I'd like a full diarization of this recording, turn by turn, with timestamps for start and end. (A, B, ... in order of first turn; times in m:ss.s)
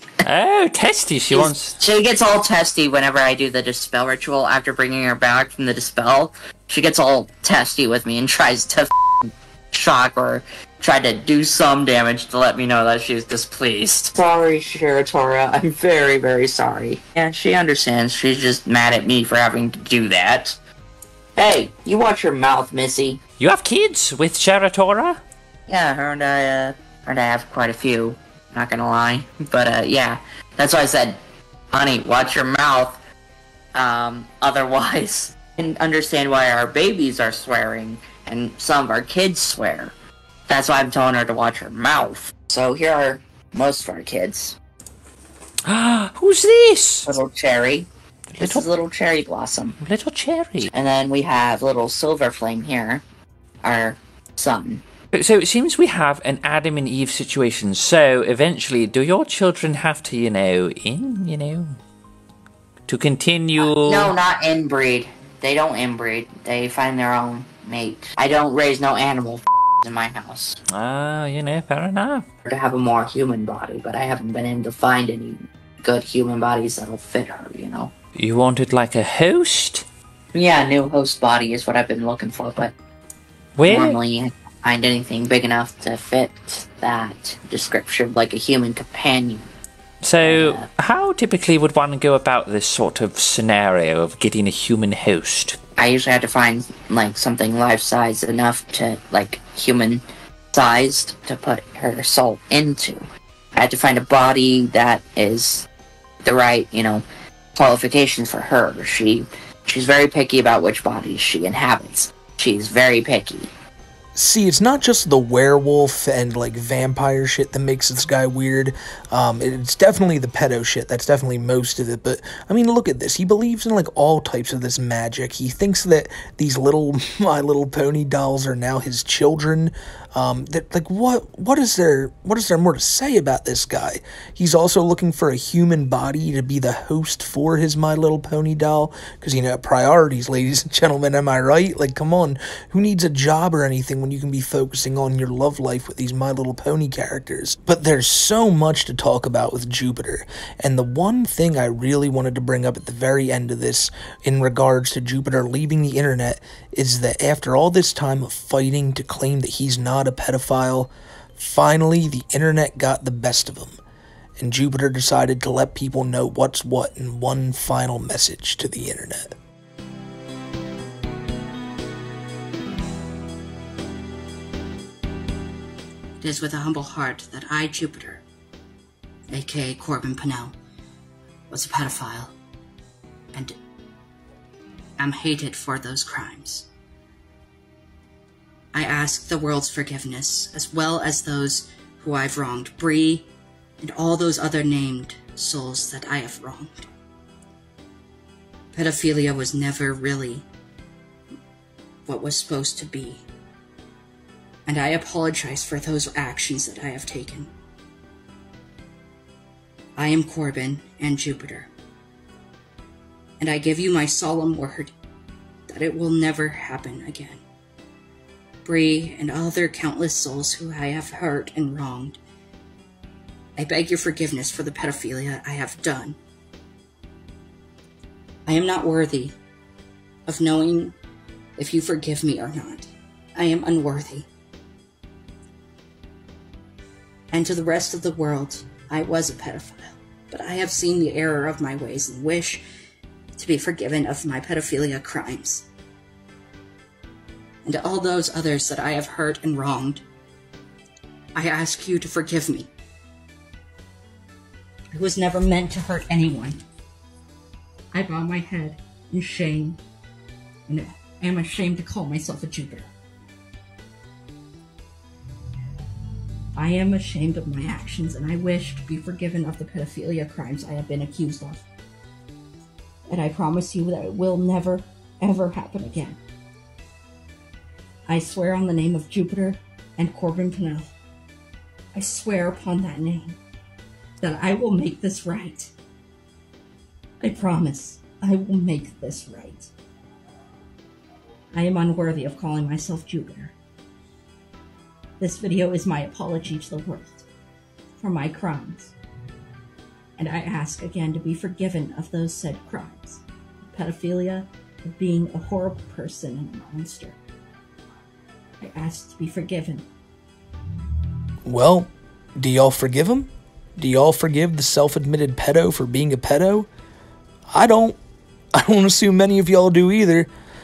0:00.2-0:01.8 A
0:01.3-0:20.6 B
0:21.4-0:23.2 B
0:23.4-0:25.2 A
0:25.7-0:31.2 B
0:31.7-0:33.0 B
0:33.8-0:39.9 B
0:40.5-0:44.6 B
0:45.7-0:47.1 A
0:47.1-0:49.8 B
0:48.4-0:48.7 A
0:49.8-0:50.7 A
0:50.7-0:53.0 B
0:53.6-0:54.8 B
0:55.1-1:01.8 A
1:02.9-1:04.1 A
1:03.6-1:10.6 B
1:10.7-1:12.3 A
1:12.5-1:17.9 B
1:18.2-1:19.8 A
1:20.3-1:22.7 B
1:23.6-1:24.0 A
1:23.6-1:29.5 B
1:30.0-1:35.6 A
1:30.2-1:30.7 B
1:35.8-1:43.0 B
1:43.6-1:45.7 B
1:46.2-1:53.5 B
1:54.2-2:43.8 C
2:44.4-2:49.3 C
2:56.2-2:58.2 D
2:59.3-3:00.6 D
3:01.5-3:02.4 D
3:05.0-3:06.7 D
3:08.7-3:13.3 D
3:13.8-3:16.9 D
3:18.7-3:20.5 D
3:22.0-3:23.2 D
3:24.7-3:27.5 D
3:30.0-3:31.7 D
3:33.4-3:34.9 D
3:35.7-3:37.4 D
3:38.6-3:42.2 D
3:43.6-3:46.2 D
3:48.5-3:49.4 D
3:50.3-3:51.0 D
3:51.6-3:54.3 D
3:57.3-4:02.6 D
4:03.4-4:05.7 D
4:07.6-4:10.0 D
4:11.4-4:12.7 D
4:14.9-4:16.6 D
4:17.9-4:19.8 D
4:20.7-4:22.9 D
4:26.6-4:31.6 D
4:33.1-4:36.2 D
4:38.1-4:40.9 D
4:41.9-4:43.4 D
4:44.2-4:45.7 D
4:47.2-4:49.7 D
4:51.5-4:53.5 D
4:55.2-4:57.3 D
4:58.0-4:59.0 D
5:00.2-5:07.2 D
5:08.6-5:09.9 D
5:11.4-5:16.7 C
5:17.5-5:18.0 C
5:18.5-5:20.3 C